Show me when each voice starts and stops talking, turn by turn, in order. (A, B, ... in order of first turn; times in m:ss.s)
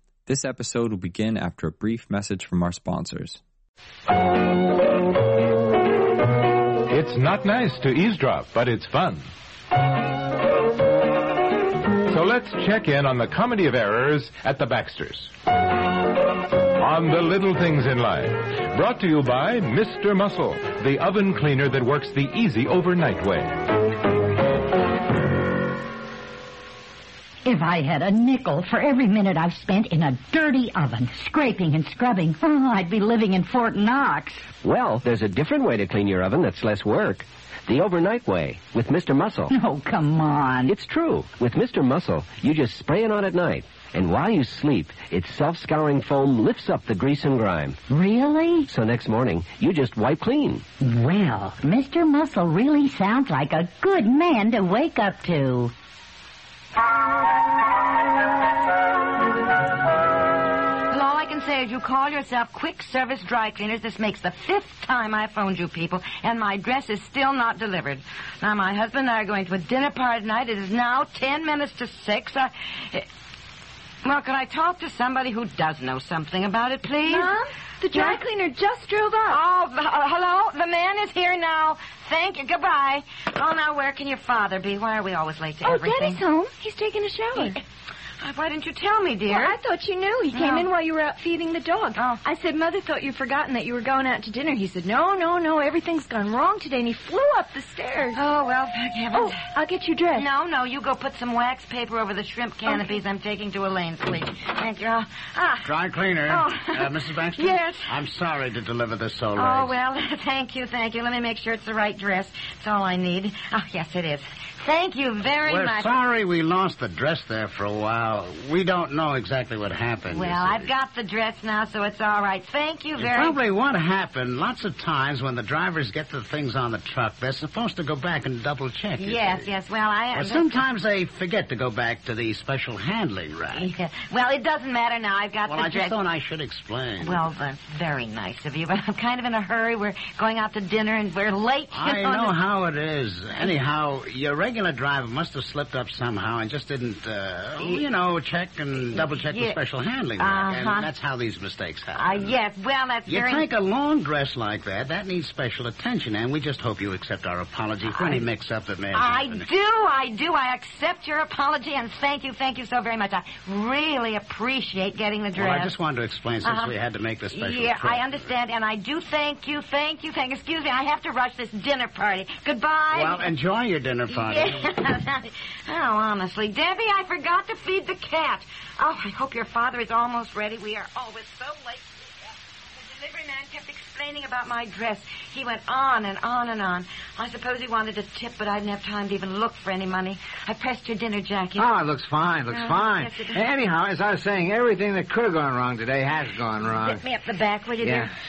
0:00.2-0:03.4 A
0:06.9-0:09.3 B
0:12.1-0:15.3 B
0:16.8-0:23.5 B
0:27.4-0:34.5 C
0:34.6-0:39.5 D
0:39.5-0:40.7 C
0:40.6-0:47.8 D
0:47.9-0:48.6 C
0:48.7-0:50.6 D
0:50.8-0:55.7 C
1:00.9-1:13.0 E
1:14.0-1:17.3 E
1:17.0-1:19.4 F
1:17.9-1:18.2 E
1:19.3-1:26.2 E
1:25.6-1:27.6 F
1:28.2-1:29.6 E
1:29.3-1:38.2 F
1:30.3-1:30.7 E
1:38.2-1:39.4 E
1:39.1-1:40.2 F
1:40.1-1:47.9 E
1:45.6-1:49.7 G
1:49.3-1:55.9 E
1:55.5-2:00.7 G
2:00.1-2:03.4 E
2:03.0-2:09.5 G
2:09.0-2:10.7 E
2:10.1-2:13.7 G
2:13.5-2:16.0 E
2:15.5-2:17.3 G
2:17.0-2:22.4 E
2:21.7-2:32.3 G
2:28.9-2:30.9 E
2:31.9-2:33.5 E
2:33.1-2:39.5 G
2:37.8-2:38.3 E
2:38.9-2:45.8 E
2:45.3-2:48.3 G
2:46.4-2:53.4 E
2:52.9-2:54.7 G
2:54.0-3:01.9 E
3:02.8-3:11.7 E
3:11.6-3:17.0 H
3:12.5-3:13.4 E
3:16.8-3:18.1 E
3:17.8-3:18.1 H